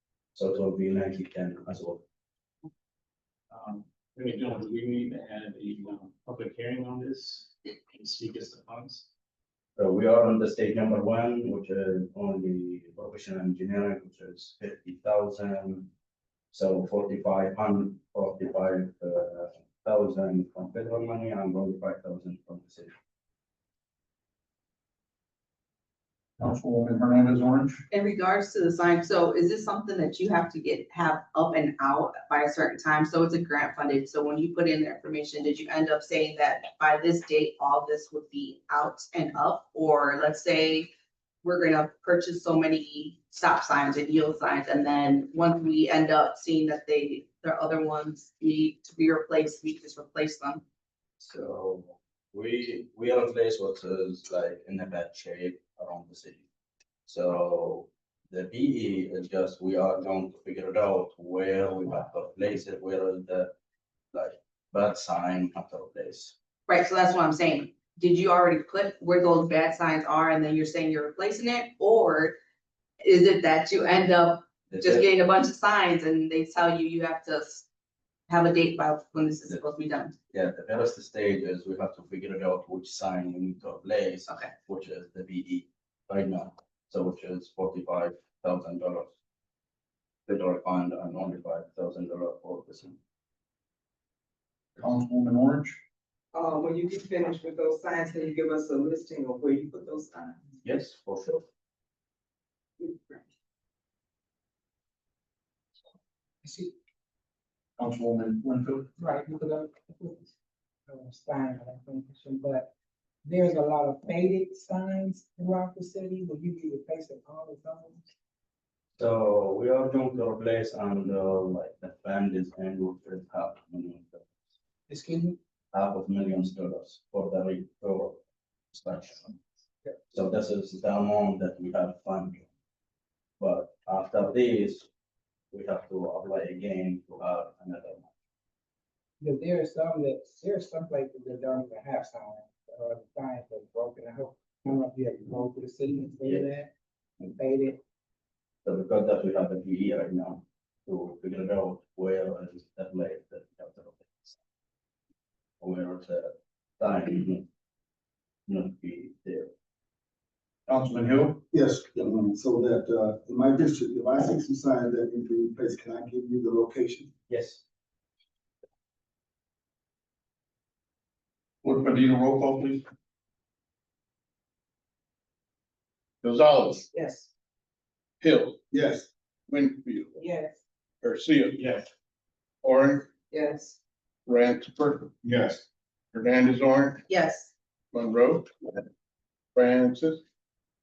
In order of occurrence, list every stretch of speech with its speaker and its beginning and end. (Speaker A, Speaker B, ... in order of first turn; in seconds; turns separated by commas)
Speaker A: 0.3-2.0, Speaker B: 3.5-9.1, Speaker A: 9.8-15.9, Speaker A: 16.5-22.9, Speaker C: 26.4-27.8, Speaker D: 27.9-40.9, Speaker D: 41.4-50.6, Speaker A: 51.2-56.4, Speaker A: 57.0-63.5, Speaker A: 64.1-66.3, Speaker D: 66.7-72.4, Speaker D: 73.0-77.7, Speaker A: 74.7-75.1, Speaker D: 78.3-80.1, Speaker A: 80.3-89.1, Speaker A: 90.3-93.0, Speaker C: 94.8-95.8, Speaker E: 96.3-100.4, Speaker A: 100.6-101.4, Speaker E: 102.8-103.2, Speaker F: 106.4-106.7, Speaker C: 107.8-108.9, Speaker F: 109.0-110.3, Speaker F: 110.9-112.7, Speaker F: 113.2-118.1, Speaker A: 119.0-124.3, Speaker F: 124.9-125.4, Speaker A: 125.7-128.2, Speaker A: 128.7-129.3, Speaker A: 130.1-132.5, Speaker A: 133.4-134.9, Speaker A: 135.5-138.1, Speaker F: 139.2-146.7, Speaker A: 146.2-146.5, Speaker F: 147.2-147.8, Speaker A: 148.6-154.4, Speaker A: 155.6-157.4, Speaker A: 158.5-159.5, Speaker C: 160.7-161.4, Speaker G: 161.5-167.1, Speaker A: 167.3-167.6, Speaker C: 171.6-172.8, Speaker H: 176.2-176.8, Speaker E: 176.9-177.3, Speaker H: 178.2-178.6, Speaker G: 178.7-179.1, Speaker H: 179.5-180.2, Speaker E: 180.2-180.6, Speaker H: 181.0-181.7, Speaker H: 182.6-183.1, Speaker E: 183.3-183.8, Speaker H: 184.2-187.0, Speaker D: 187.1-187.5, Speaker H: 187.9-188.8, Speaker H: 189.5-190.2